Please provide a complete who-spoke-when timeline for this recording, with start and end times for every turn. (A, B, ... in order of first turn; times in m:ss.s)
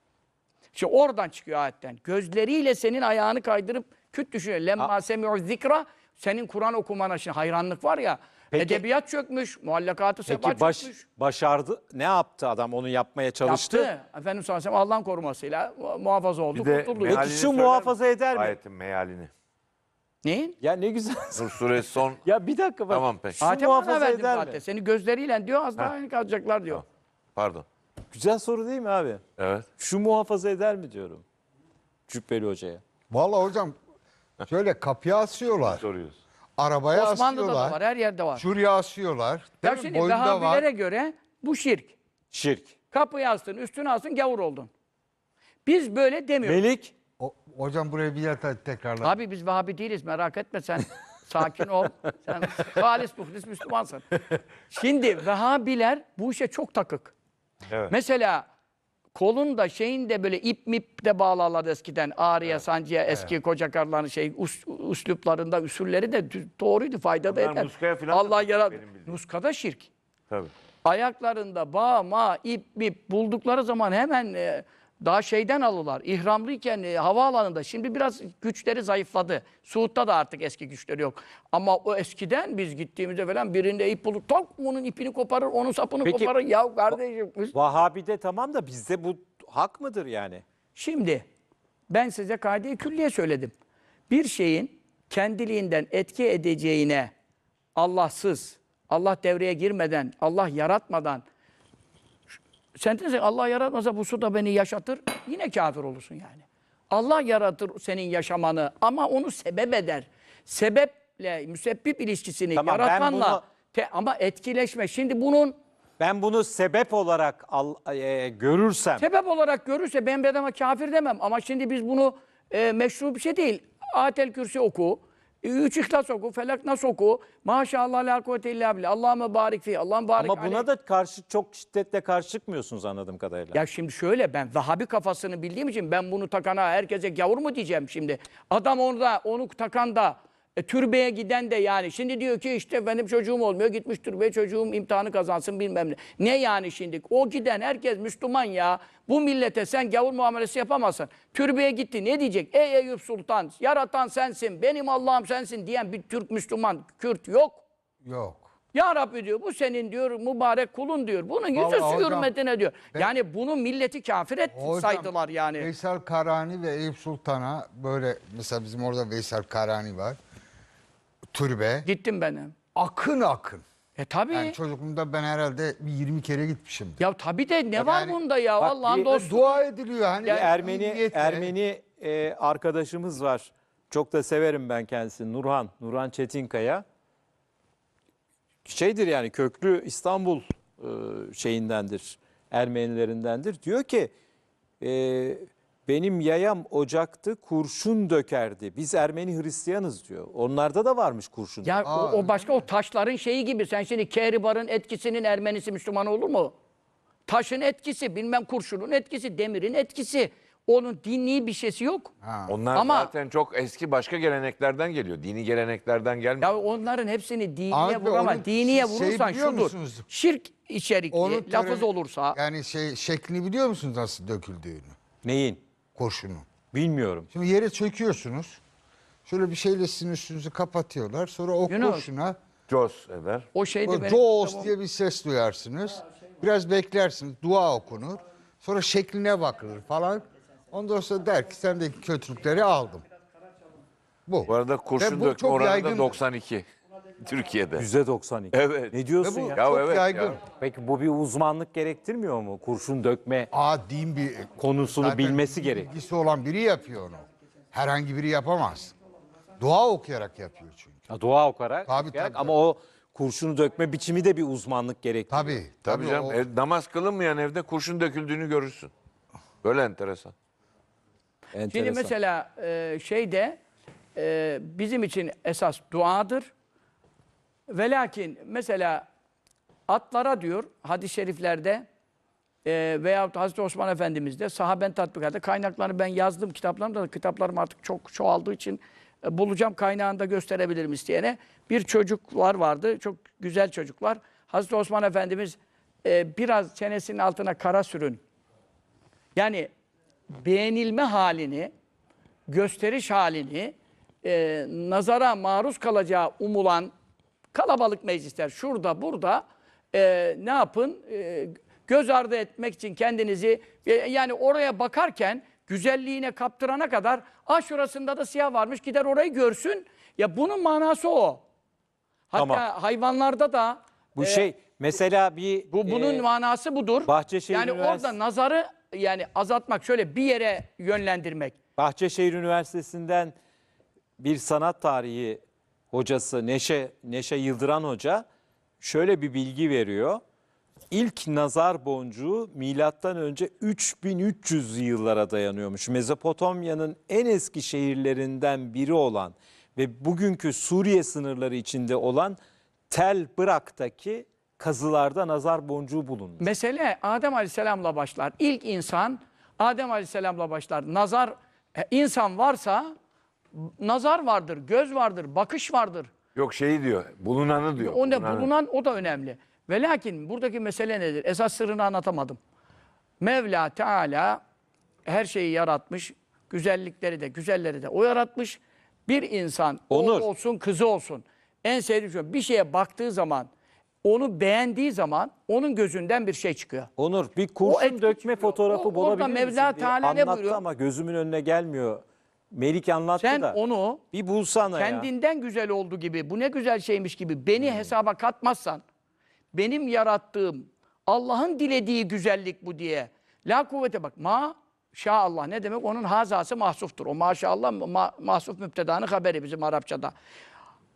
0:00.7-0:11.0 A
0:08.5-0:08.8 B
0:10.3-0:13.9 B
0:13.4-0:17.3 A
0:16.5-0:19.3 C
0:17.0-0:18.6 B
0:20.2-0:20.5 A
0:20.6-0:21.5 B
0:21.3-0:22.2 C
0:22.2-0:24.6 B
0:22.9-0:23.4 C
0:23.4-0:26.8 A
0:27.4-0:27.6 C
0:28.1-0:29.2 B
0:29.4-0:29.7 C
0:29.8-0:31.2 B
0:32.1-0:32.8 B
0:33.1-0:33.8 D
0:34.5-0:35.8 D
0:35.6-0:36.2 C
0:36.6-0:37.8 D
0:36.9-0:38.4 A
0:38.4-0:40.6 D
0:39.6-0:41.9 A
0:42.3-0:42.7 B
0:42.9-0:44.7 A
0:45.6-0:46.6 A
0:46.4-0:46.9 B
0:47.2-0:49.1 D
0:49.0-0:54.1 A
0:54.7-0:57.1 A
0:57.7-0:57.9 C
0:57.9-0:58.5 A
0:59.1-1:09.9 A
1:07.3-1:09.2 C
1:10.8-1:27.5 A
1:26.0-1:26.3 B
1:27.5-1:30.4 B
1:30.8-1:31.2 A
1:31.9-1:33.5 A
1:34.1-1:37.1 A
1:37.8-1:41.2 A
1:42.8-1:55.6 A
1:52.5-1:53.4 B
1:56.0-1:59.0 B
1:59.0-2:10.6 A
2:10.2-2:13.6 B
2:13.5-2:37.6 A
2:38.0-2:38.5 D
2:38.7-2:45.7 A
2:41.5-2:42.3 D
2:44.5-2:50.2 D
2:51.3-2:51.9 D
2:51.8-2:52.6 A
2:52.8-2:53.6 D
2:54.0-2:54.6 A
2:54.3-2:57.0 D
2:57.0-2:59.6 A
2:57.8-2:58.2 D
2:58.6-2:59.0 B
2:59.0-3:01.5 D
3:00.2-3:06.8 B
3:08.6-3:14.1 B
3:14.8-3:21.8 B
3:21.6-3:26.5 A
3:21.8-3:22.6 D
3:27.3-3:32.1 A
3:32.2-3:32.5 D
3:32.5-3:36.5 C
3:32.7-3:33.1 A
3:36.4-3:42.4 A
3:37.7-3:40.1 D
3:41.1-3:44.9 D
3:45.2-3:45.6 B
3:46.0-3:46.5 D
3:46.7-3:47.3 B
3:47.3-3:48.6 D
3:49.3-3:52.4 D
3:51.7-3:52.1 A
3:52.7-3:53.5 C
3:53.5-3:54.7 A
3:53.9-4:03.0 D
4:04.3-4:06.2 D
4:04.5-4:06.7 C
4:07.2-4:07.9 C
4:07.8-4:09.6 B
4:08.5-4:09.0 C
4:09.2-4:10.4 D
4:09.5-4:10.4 C
4:10.5-4:13.5 B
4:13.5-4:18.9 D
4:14.6-4:15.9 B
4:19.6-4:21.0 D
4:21.1-4:25.6 B
4:21.9-4:22.6 D
4:25.3-4:26.4 D
4:25.8-4:28.9 C
4:29.6-4:30.3 C
4:31.5-4:32.1 B
4:31.7-4:33.6 A
4:34.2-4:36.5 A
4:37.7-4:39.0 A
4:39.9-4:41.8 A
4:42.6-4:58.2 A
4:59.4-4:59.7 A
5:00.4-5:01.7 A
5:02.5-5:06.9 A
5:07.5-5:21.4 A
5:22.3-5:24.5 A
5:22.4-5:22.6 B
5:24.2-5:26.2 B
5:25.7-5:31.6 A
5:27.0-5:28.1 B
5:31.8-5:33.4 B
5:34.2-5:35.4 B
5:35.9-5:38.2 B
5:38.8-5:40.2 B
5:40.9-5:52.4 B
5:52.9-5:56.5 B
5:56.4-6:02.9 A
6:03.5-6:06.1 A
6:06.3-6:08.5 C
6:07.8-6:12.4 A
6:13.2-6:14.4 A
6:15.1-6:23.5 A
6:19.9-6:20.3 B
6:24.0-6:26.9 A
6:27.0-6:33.6 B
6:27.6-6:30.6 A
6:33.2-6:34.0 A
6:34.1-6:35.1 B
6:34.7-6:38.8 A
6:39.5-6:50.1 A